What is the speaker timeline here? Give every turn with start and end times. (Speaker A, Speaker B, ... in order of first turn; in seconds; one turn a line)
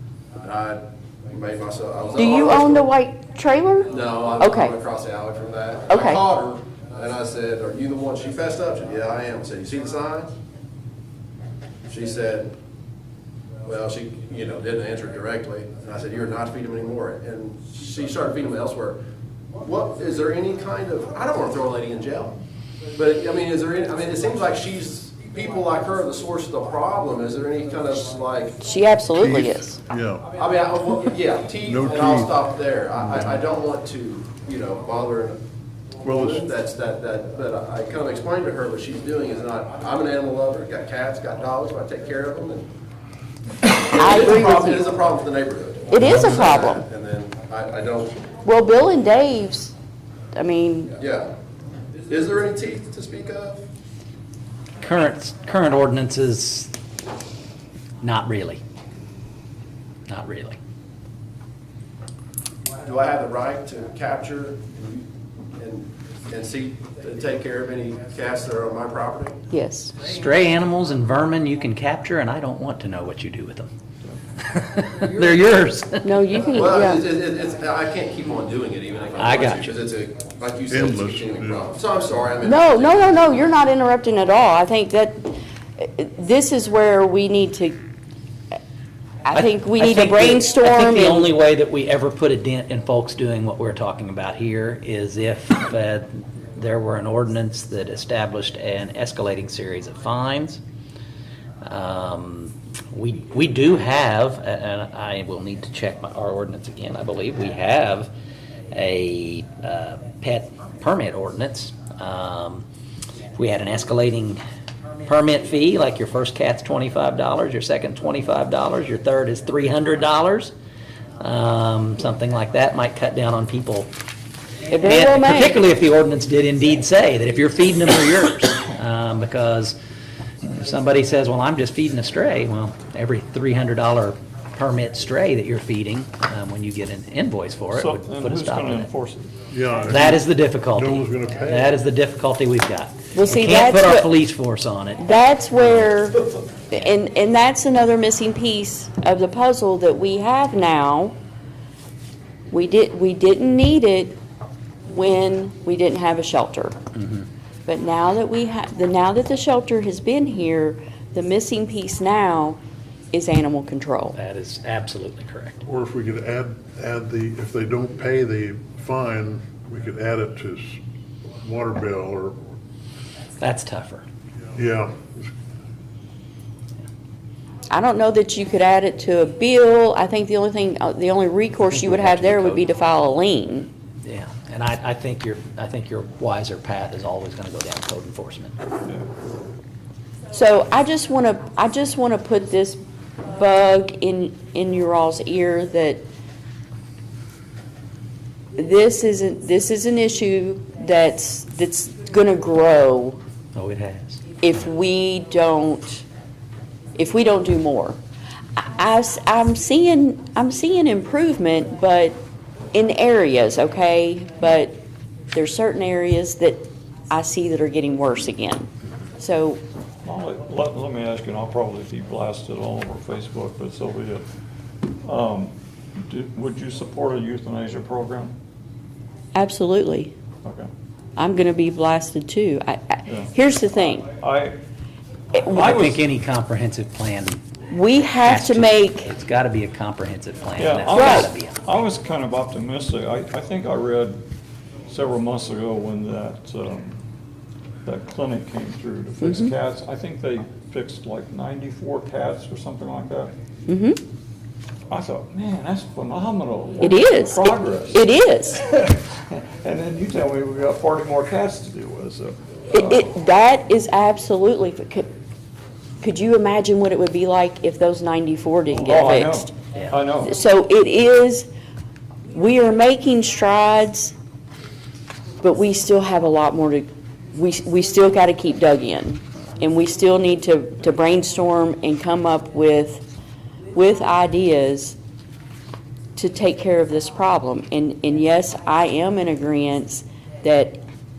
Speaker A: 0.4-2.9
Speaker B: 2.2-4.7
Speaker A: 3.9-10.3
Speaker B: 5.9-6.2
Speaker A: 11.9-12.5
Speaker A: 13.6-19.0
Speaker A: 19.6-22.3
Speaker A: 22.9-28.6
Speaker B: 28.6-29.7
Speaker C: 29.1-30.3
Speaker A: 30.3-35.4
Speaker C: 31.7-32.3
Speaker C: 33.0-33.4
Speaker C: 36.0-36.4
Speaker A: 36.0-42.7
Speaker A: 43.6-48.2
Speaker B: 43.7-44.9
Speaker B: 45.9-46.8
Speaker B: 48.4-49.7
Speaker B: 50.3-51.0
Speaker A: 50.9-51.3
Speaker A: 52.1-53.6
Speaker D: 54.8-56.7
Speaker D: 58.0-58.6
Speaker D: 60.1-60.6
Speaker A: 62.8-69.4
Speaker B: 69.5-69.9
Speaker D: 70.0-73.7
Speaker D: 74.4-76.2
Speaker B: 76.0-77.0
Speaker A: 76.5-83.5
Speaker D: 79.2-79.7
Speaker C: 80.7-81.7
Speaker B: 82.4-87.8
Speaker B: 89.3-91.3
Speaker D: 89.3-100.6
Speaker D: 101.6-108.1
Speaker D: 108.7-112.6
Speaker D: 113.3-114.4
Speaker D: 115.0-120.5
Speaker D: 121.2-123.9
Speaker B: 124.7-125.6
Speaker D: 124.8-129.8
Speaker D: 130.4-138.9
Speaker E: 137.7-139.4
Speaker C: 139.5-141.8
Speaker D: 139.8-146.0
Speaker B: 143.1-144.1
Speaker B: 145.0-151.1
Speaker B: 152.5-154.2
Speaker B: 154.9-156.8
Speaker D: 156.9-157.3
Speaker B: 157.7-162.6
Speaker B: 163.1-164.2
Speaker D: 164.1-165.6
Speaker C: 165.6-170.8
Speaker C: 171.4-172.4
Speaker D: 173.4-174.1
Speaker C: 174.5-175.3
Speaker B: 177.7-183.7
Speaker D: 181.7-182.7
Speaker D: 184.0-188.6
Speaker B: 190.3-196.0
Speaker B: 198.5-203.2
Speaker D: 203.5-204.2
Speaker B: 204.4-206.0
Speaker B: 206.9-208.0
Speaker B: 208.6-212.2
Speaker B: 212.7-214.7
Speaker B: 215.3-219.6
Speaker E: 220.0-224.2
Speaker E: 224.8-228.3
Speaker B: 229.3-230.1
Speaker E: 230.4-230.7
Speaker B: 231.2-234.1
Speaker E: 233.1-233.3
Speaker E: 234.1-234.6
Speaker B: 235.3-235.7
Speaker E: 235.5-236.0
Speaker D: 235.6-237.4
Speaker B: 237.7-239.1
Speaker D: 238.2-241.6
Speaker E: 240.6-244.2
Speaker B: 240.9-241.3
Speaker E: 244.9-247.0
Speaker E: 247.8-253.3
Speaker B: 249.2-249.5
Speaker B: 253.7-254.0
Speaker E: 254.9-263.0
Speaker B: 256.8-258.6
Speaker B: 262.7-265.1
Speaker B: 266.0-269.5
Speaker E: 268.7-270.3
Speaker B: 270.2-271.5
Speaker B: 272.3-274.1
Speaker B: 275.4-283.1
Speaker B: 283.7-284.9
Speaker B: 286.1-290.8